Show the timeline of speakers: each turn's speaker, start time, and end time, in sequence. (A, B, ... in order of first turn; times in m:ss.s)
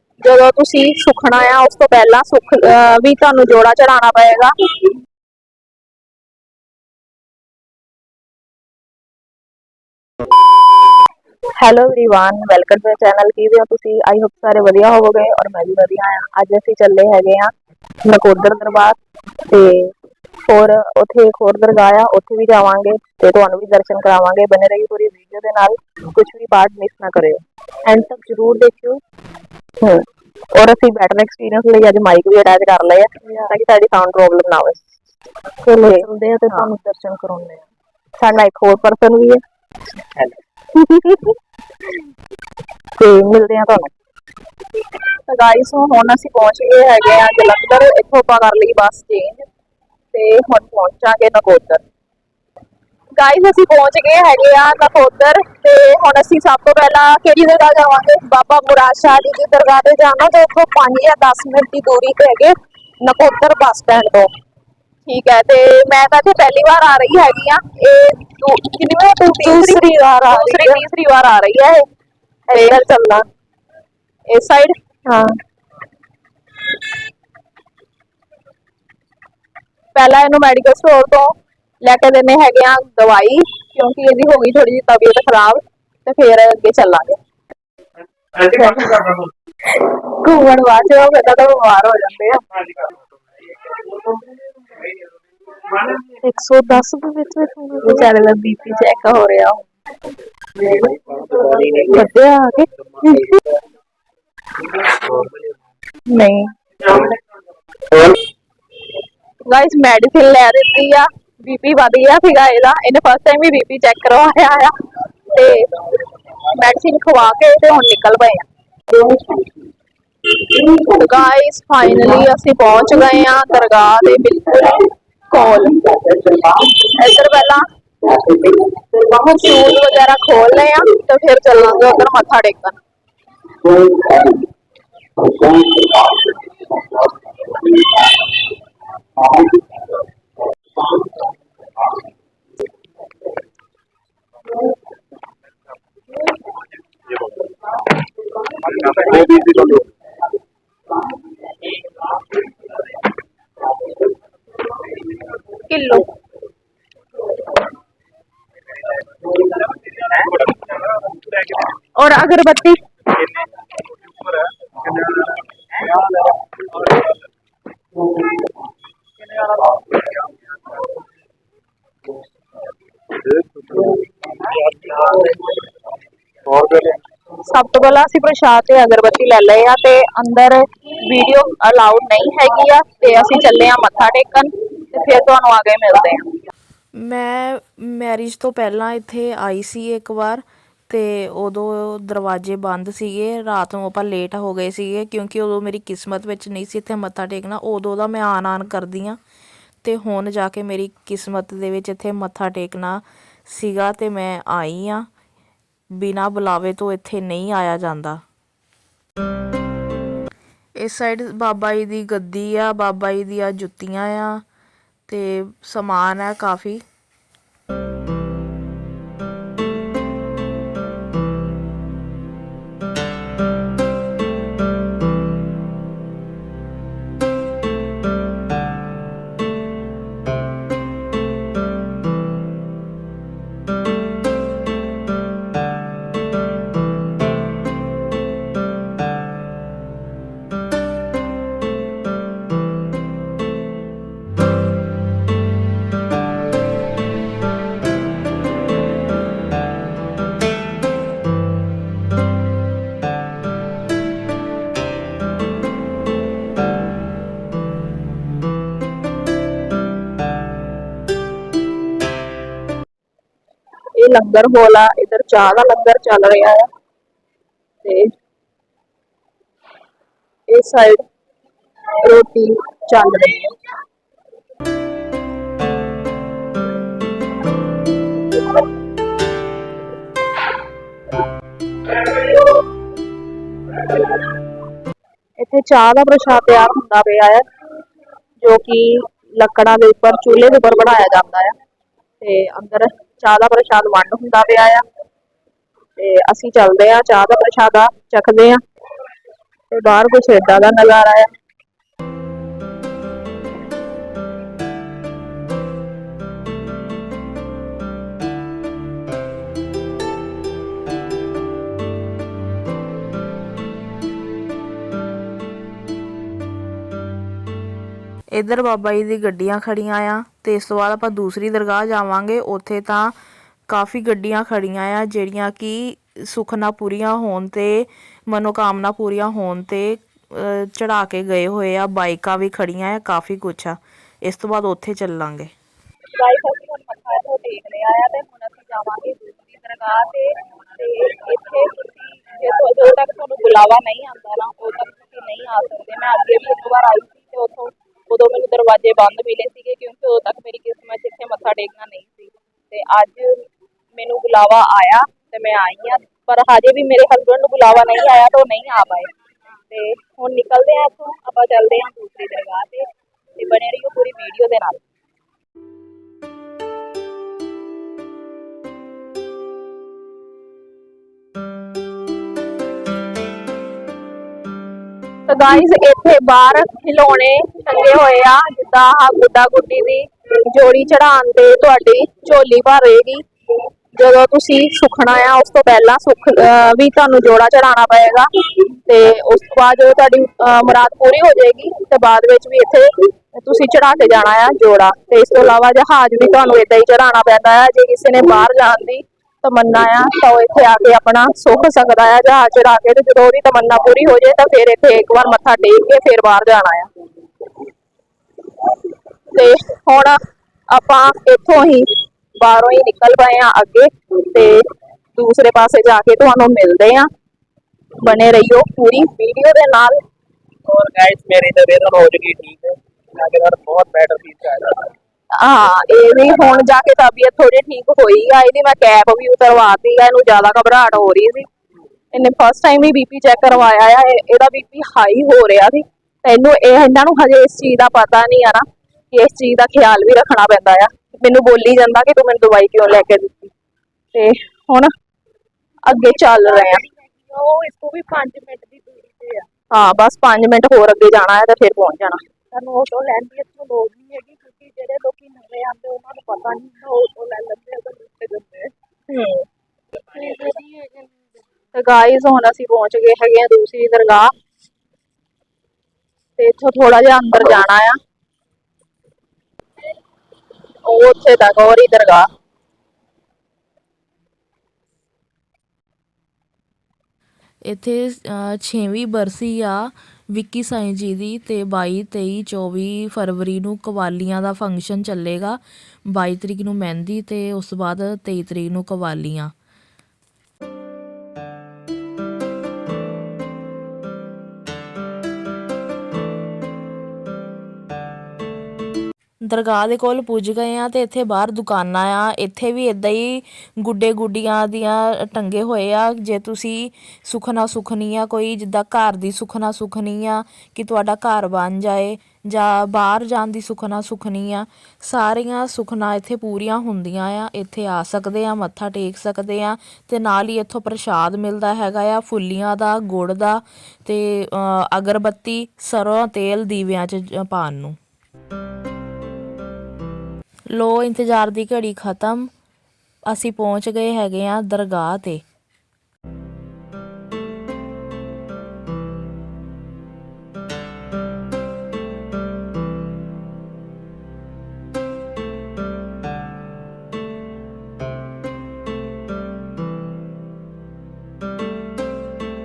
0:00.2-0:04.5 A
0:11.6-0:17.5 A
0:18.0-0:19.0 A
0:19.5-0:19.9 A
0:20.4-0:29.0 A
0:30.5-0:34.8 A
0:35.6-0:36.8 A
0:35.7-0:37.6 B
0:38.2-0:39.4 A
0:40.7-0:41.2 A
0:43.0-0:43.9 A
0:45.3-0:49.5 A
0:50.1-0:51.8 A
0:53.2-1:04.3 A
1:05.0-1:11.8 A
1:09.4-1:10.8 B
1:12.5-1:13.2 A
1:14.3-1:15.2 A
1:19.9-1:27.2 A
1:28.4-1:29.2 A
1:29.7-1:32.4 A
1:36.2-1:37.7 B
1:37.6-1:39.6 A
1:41.3-1:41.8 C
1:41.9-1:42.6 A
1:46.1-1:46.5 A
1:49.4-1:59.4 A
2:00.3-2:12.8 A
2:13.6-2:14.4 A
2:15.3-2:16.0 A
2:28.8-2:29.8 C
2:35.7-2:36.1 A
2:41.9-2:42.8 A
2:56.6-2:57.0 C
2:57.4-3:06.3 A
3:07.0-3:19.2 D
3:19.8-3:25.1 D
3:25.9-3:28.2 D
3:30.8-3:34.4 D
3:35.1-3:36.8 D
4:24.0-4:26.7 A
4:27.8-4:28.1 A
4:30.5-4:31.0 A
4:32.0-4:33.5 A
4:45.4-4:47.4 A
4:48.4-4:51.6 A
4:52.2-4:54.8 A
4:56.0-4:58.6 A
4:59.7-5:01.3 A
5:18.3-5:23.1 D
5:23.7-5:35.5 D
5:36.2-5:59.1 A
5:59.7-6:02.8 A
6:03.4-6:04.8 A
6:15.3-6:23.2 A
6:24.0-6:46.9 A
6:49.3-6:50.2 A
6:50.7-6:57.1 A
6:58.0-7:00.0 A
7:00.6-7:04.8 C
7:05.4-7:11.5 A
7:12.1-7:23.5 A
7:24.1-7:24.9 A
7:25.8-7:26.8 A
7:26.2-7:29.4 B
7:29.7-7:32.2 A
7:32.5-7:38.7 B
7:39.1-7:39.4 A
7:40.1-7:41.1 B
7:41.7-7:44.3 A
7:46.4-7:48.0 A
7:50.8-7:52.3 A
7:57.6-8:09.5 D
8:19.4-8:48.0 D
8:50.7-8:52.5 D
8:53.3-8:55.4 D